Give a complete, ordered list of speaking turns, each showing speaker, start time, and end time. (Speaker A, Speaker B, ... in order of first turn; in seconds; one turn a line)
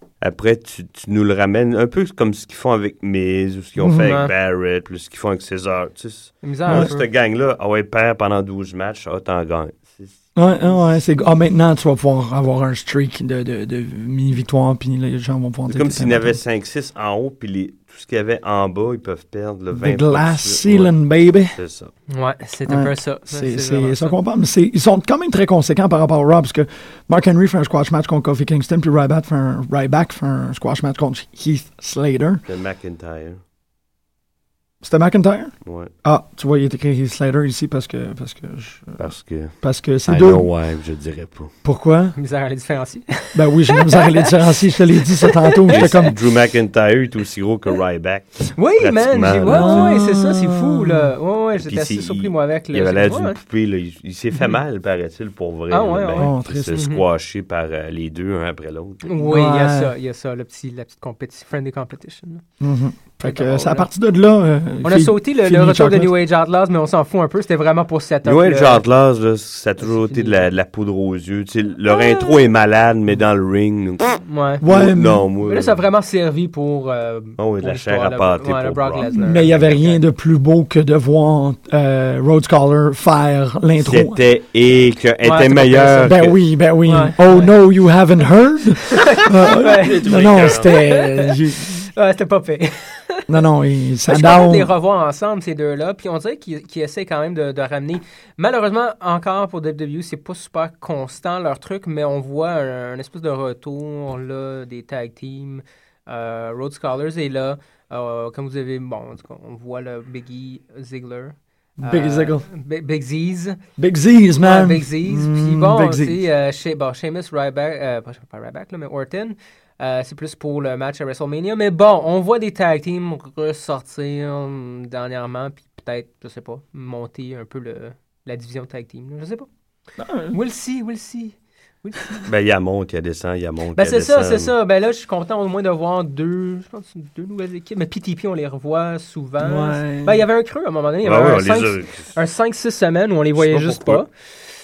Speaker A: 0.2-10.1
Speaker B: 3.8-4.1
Speaker C: 4.0-4.3
Speaker C: 6.4-7.1
Speaker B: 6.7-7.0
Speaker B: 10.4-16.4
Speaker A: 15.7-21.0
Speaker B: 19.7-21.6
Speaker A: 21.5-21.9
Speaker C: 22.1-24.2
Speaker B: 22.7-32.4
Speaker A: 32.5-33.4
Speaker B: 34.8-35.5
Speaker A: 35.6-35.9
Speaker B: 36.0-39.0
Speaker A: 39.0-41.5
Speaker B: 39.6-40.5
Speaker B: 41.6-42.2
Speaker C: 42.2-44.3
Speaker B: 43.3-46.2
Speaker C: 45.2-45.9
Speaker A: 45.7-49.9
Speaker C: 48.5-53.4
Speaker B: 49.5-51.1
Speaker A: 51.6-59.0
Speaker C: 55.7-57.0
Speaker B: 56.2-56.7
Speaker C: 59.0-62.4
Speaker B: 59.2-59.9
Speaker B: 62.6-66.2
Speaker C: 63.2-63.9
Speaker C: 64.8-68.8
Speaker A: 68.2-75.8
Speaker C: 69.8-70.5
Speaker C: 71.9-72.4
Speaker C: 74.2-74.6
Speaker B: 74.6-75.3
Speaker C: 75.4-80.0
Speaker A: 77.4-79.6
Speaker B: 79.2-84.2
Speaker A: 83.8-86.4
Speaker C: 85.2-86.2
Speaker B: 86.0-91.9
Speaker C: 86.9-87.5
Speaker C: 88.9-93.2
Speaker A: 89.7-90.7
Speaker B: 93.3-94.7
Speaker C: 94.1-113.6
Speaker B: 111.8-112.5
Speaker B: 113.8-116.3
Speaker C: 114.4-129.5
Speaker B: 130.0-130.4
Speaker C: 130.3-132.3
Speaker A: 132.3-134.5
Speaker C: 133.8-144.1
Speaker B: 139.4-140.2
Speaker A: 141.0-142.1
Speaker A: 143.4-144.0